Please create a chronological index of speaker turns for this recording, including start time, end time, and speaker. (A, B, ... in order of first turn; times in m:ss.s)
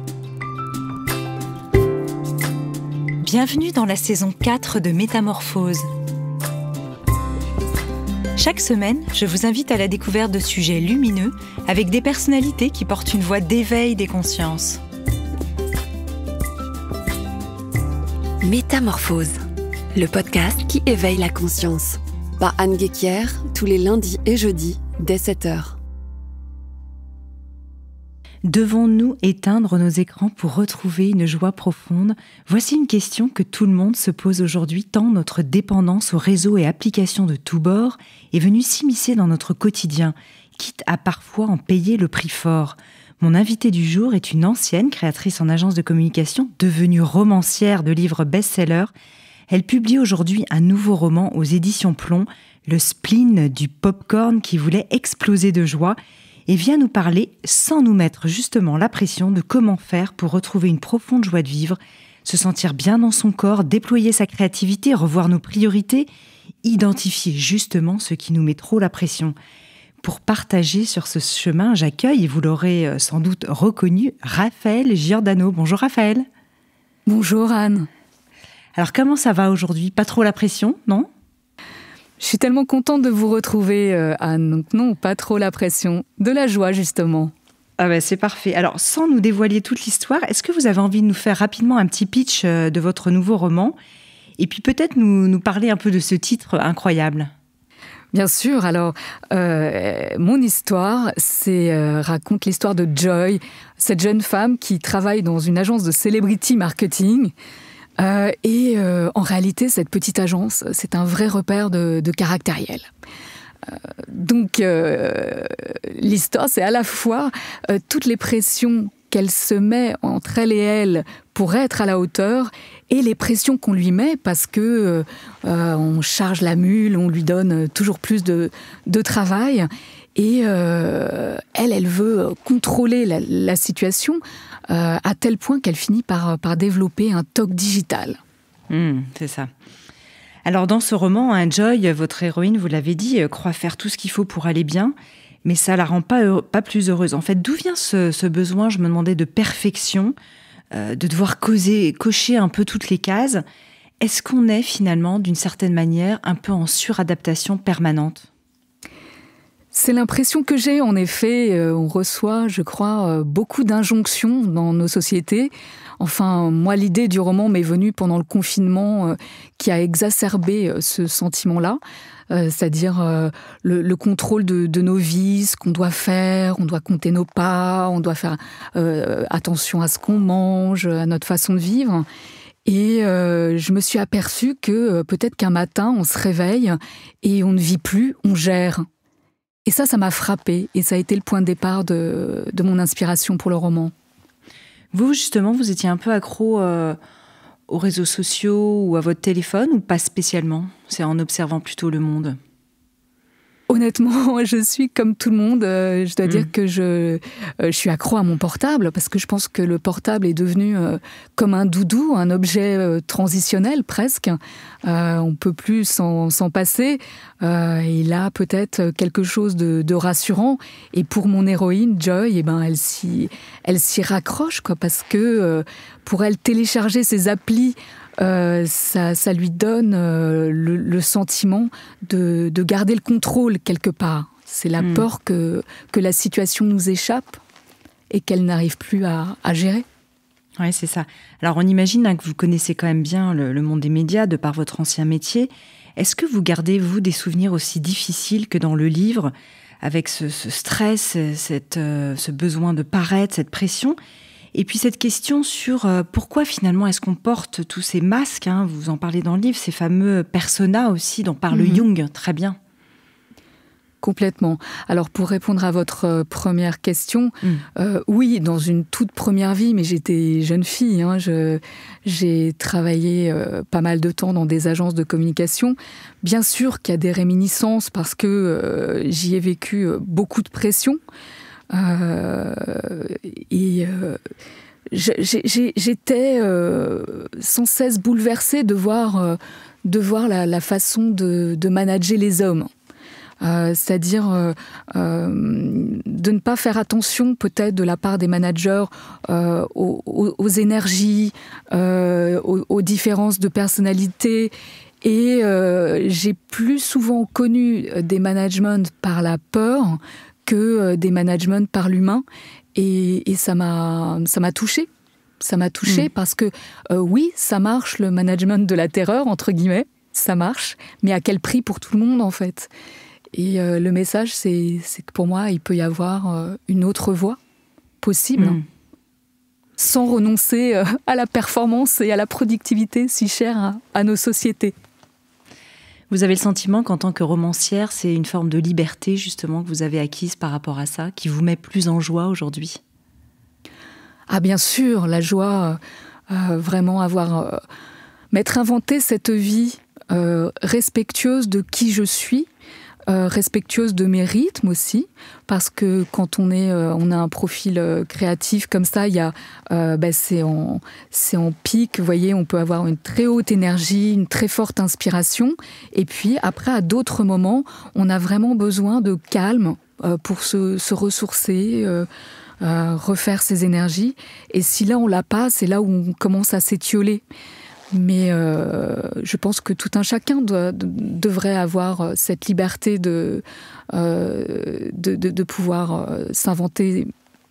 0:03.2-0:05.9 A
0:08.4-0:14.8 A
0:18.4-0:19.4 B
0:19.9-0:25.8 B
0:28.4-0:48.9 A
0:49.5-1:06.1 A
1:06.6-1:09.3 A
1:10.0-1:16.3 A
1:17.1-1:17.9 C
1:18.8-1:21.1 A
1:22.2-1:27.3 C
1:27.8-1:33.8 A
1:34.4-1:37.3 A
1:38.1-1:47.3 C
1:48.0-1:52.8 C
1:53.7-2:18.2 C
2:18.7-2:19.5 A
2:20.4-2:30.1 A
2:30.7-2:33.4 A
2:34.0-2:38.3 A
2:39.7-2:51.8 C
2:52.3-3:02.0 C
3:02.6-3:08.8 C
3:09.6-3:13.9 C
3:14.9-3:17.0 A
3:17.7-3:22.4 A
3:23.7-3:57.4 C
3:54.8-3:55.0 A
3:58.1-3:59.8 C
4:00.6-4:14.0 A
4:14.5-4:22.6 A
4:21.5-4:21.8 C
4:24.0-4:41.0 C
4:41.7-4:44.2 C
4:44.9-4:52.7 C
4:53.4-5:12.2 C
5:12.7-5:14.9 C
5:15.4-5:22.7 C
5:23.3-5:27.4 C
5:28.0-5:28.6 C
5:28.4-5:28.6 A
5:29.8-5:34.7 C
5:36.1-5:42.8 A
5:44.3-5:45.8 C
5:46.3-5:47.6 C
5:48.3-5:52.5 C
5:53.1-6:12.1 C
6:12.6-6:17.2 C
6:17.9-6:27.1 C